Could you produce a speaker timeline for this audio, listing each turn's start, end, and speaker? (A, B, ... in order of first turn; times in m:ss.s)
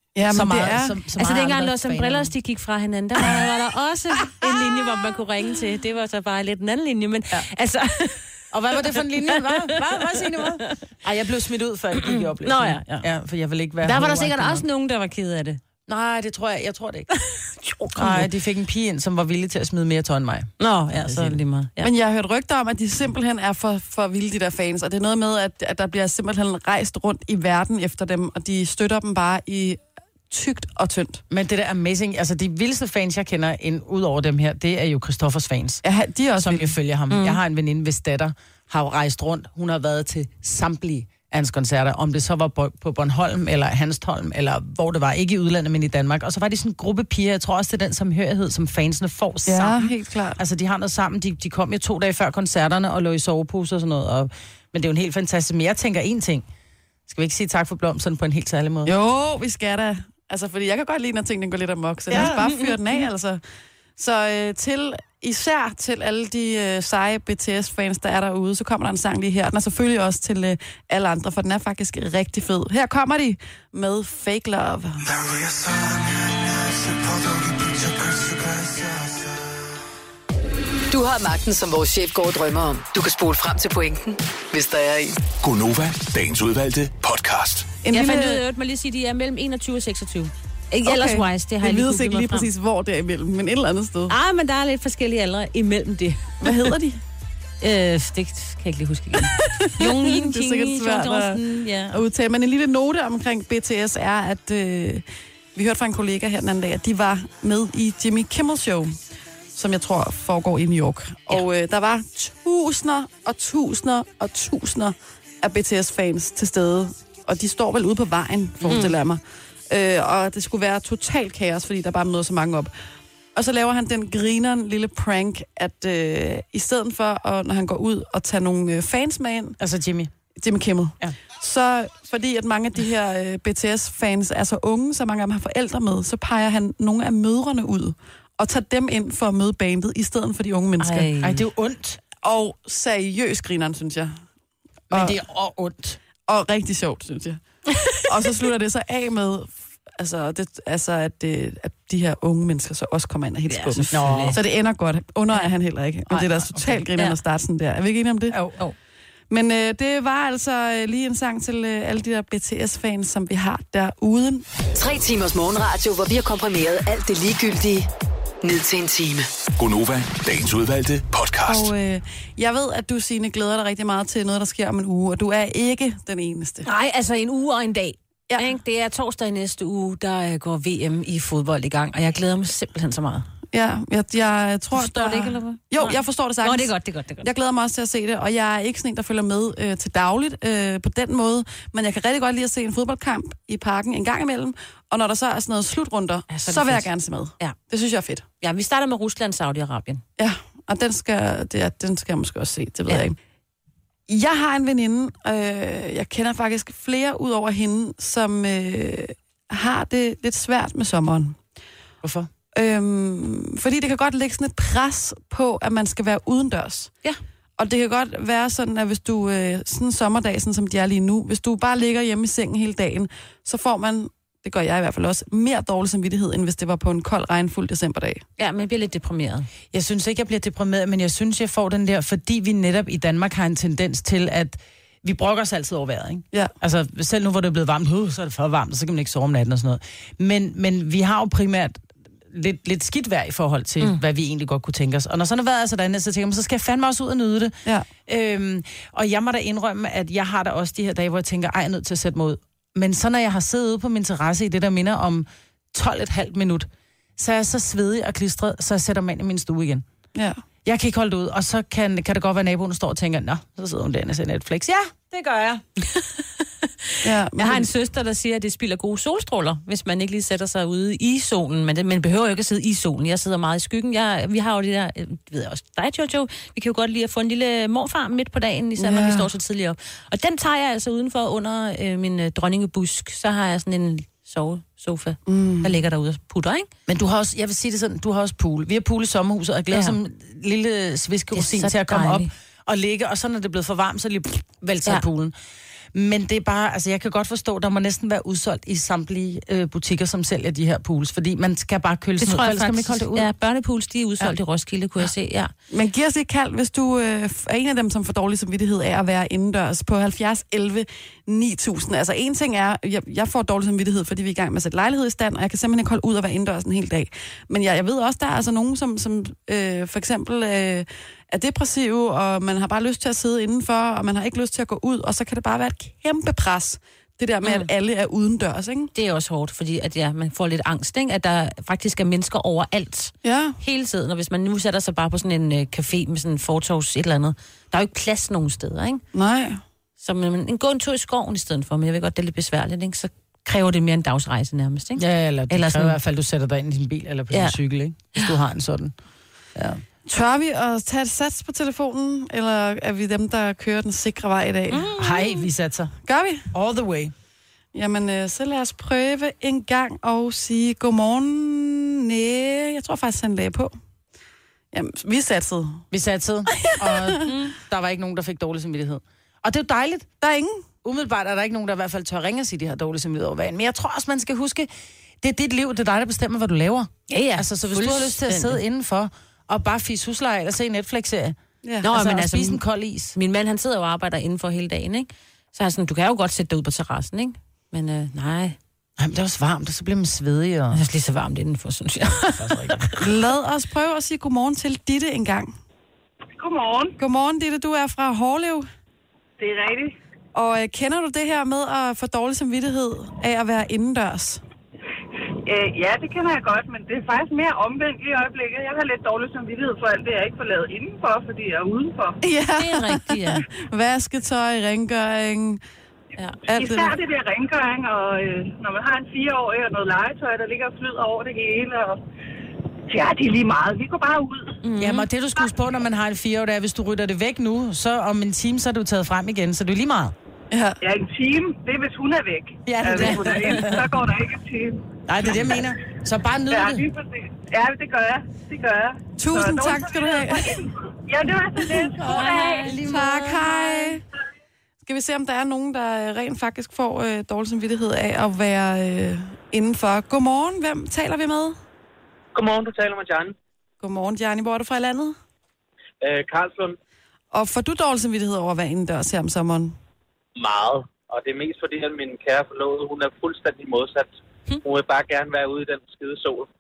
0:00.2-0:01.0 A
0:00.3-0:02.3 B
0:01.2-0:08.3 C
0:08.5-0:14.6 B
0:08.9-0:10.7 C
0:12.0-0:13.1 C
0:13.8-0:15.6 C
0:15.9-0:17.1 B
0:17.1-0:18.3 C
0:18.0-0:21.4 B
0:20.6-0:21.9 C
0:21.8-0:31.2 A
0:31.3-0:35.8 B
0:35.8-0:36.7 A
0:36.4-0:56.5 B
0:37.1-0:37.4 C
0:49.5-0:50.4 A
0:57.1-0:58.9 B
0:58.8-1:03.4 A
1:02.1-1:02.5 B
1:02.1-1:03.0 C
1:04.0-1:15.0 A
1:15.3-1:16.3 D
1:20.9-1:25.2 D
1:25.4-1:27.7 E
1:27.8-1:28.4 A
1:27.9-1:32.5 C
1:30.9-1:34.1 A
1:34.1-1:36.7 C
1:36.4-1:37.0 A
1:37.6-1:42.0 C
1:39.2-1:45.0 A
1:45.6-1:49.0 A
1:49.6-2:02.7 A
1:58.6-1:59.0 C
2:03.4-2:09.6 A
2:09.6-2:10.1 B
2:10.4-2:21.1 A
2:20.8-2:21.4 C
2:21.2-2:22.0 B
2:22.2-2:24.2 A
2:24.9-2:26.0 B
2:26.3-2:27.4 A
2:28.0-2:38.4 A
2:33.5-2:34.4 C
2:33.9-2:34.4 B
2:36.1-2:36.8 B
2:38.3-2:38.7 B
2:39.3-2:44.5 A
2:44.7-2:47.9 D
2:48.4-2:49.3 D
2:49.6-2:51.7 E
2:51.5-2:56.7 A
2:56.6-3:03.3 C
3:03.5-3:06.7 A
3:04.8-3:07.3 C
3:07.2-3:18.2 A
3:16.3-3:17.6 C
3:18.4-3:20.0 C
3:20.2-3:23.2 A
3:24.1-3:31.4 A
3:32.0-3:32.3 B
3:32.6-3:36.9 A
3:37.6-3:48.2 A
3:48.4-3:49.5 C
3:49.7-4:19.8 B
4:20.2-4:20.4 A
4:20.6-4:25.6 B
4:25.9-4:46.7 C
4:27.0-4:27.7 A
4:38.8-4:39.3 A
4:45.3-4:45.7 A
4:46.9-4:55.4 B
4:49.7-4:50.0 C
4:51.3-4:52.3 C
4:55.9-5:03.3 B
5:02.2-5:05.5 C
5:05.7-5:28.9 A
5:27.4-5:27.7 C
5:28.9-5:39.0 C
5:33.2-5:33.6 A
5:39.1-5:39.6 A
5:40.0-5:46.0 C
5:45.0-5:48.9 B
5:47.3-5:47.6 C
5:49.6-5:49.8 B
5:50.1-5:54.9 A
5:54.7-5:55.5 C
5:55.0-5:55.9 B
5:56.0-5:56.5 A
5:56.5-5:57.1 B
5:57.7-6:03.7 A
6:04.7-6:05.8 A
6:05.9-6:10.1 B
6:06.6-6:07.3 A
6:07.2-6:07.6 C
6:10.2-6:10.6 A
6:10.8-6:14.7 B
6:15.2-6:21.4 B
6:17.1-6:18.6 C
6:21.6-6:21.9 A
6:21.8-6:22.6 C
6:21.9-6:23.2 B
6:23.2-6:28.6 C
6:29.0-6:30.8 B
6:30.7-6:33.0 C
6:32.4-6:32.9 B
6:33.0-6:35.5 A
6:36.4-6:37.0 F
6:37.0-6:38.7 A
6:39.4-6:40.0 F
6:40.3-6:44.4 A
6:45.5-6:52.2 F
6:52.2-6:55.6 A
6:52.6-6:53.5 C
6:56.5-6:56.9 A
6:56.5-7:02.0 F
7:02.9-7:04.6 F
7:04.6-7:05.1 C
7:04.8-7:10.1 B
7:10.5-7:10.8 A
7:10.8-7:15.6 F
7:12.7-7:13.9 B
7:15.1-7:16.9 B
7:16.5-7:22.8 F
7:19.2-7:20.6 A
7:21.7-7:24.0 A
7:22.0-7:24.0 B
7:22.2-7:22.7 C
7:24.8-7:31.6 A
7:32.4-7:33.3 G
7:33.8-7:35.2 A
7:36.0-7:36.8 G
7:37.3-7:39.8 A
7:40.4-7:44.1 G
7:44.6-7:46.5 G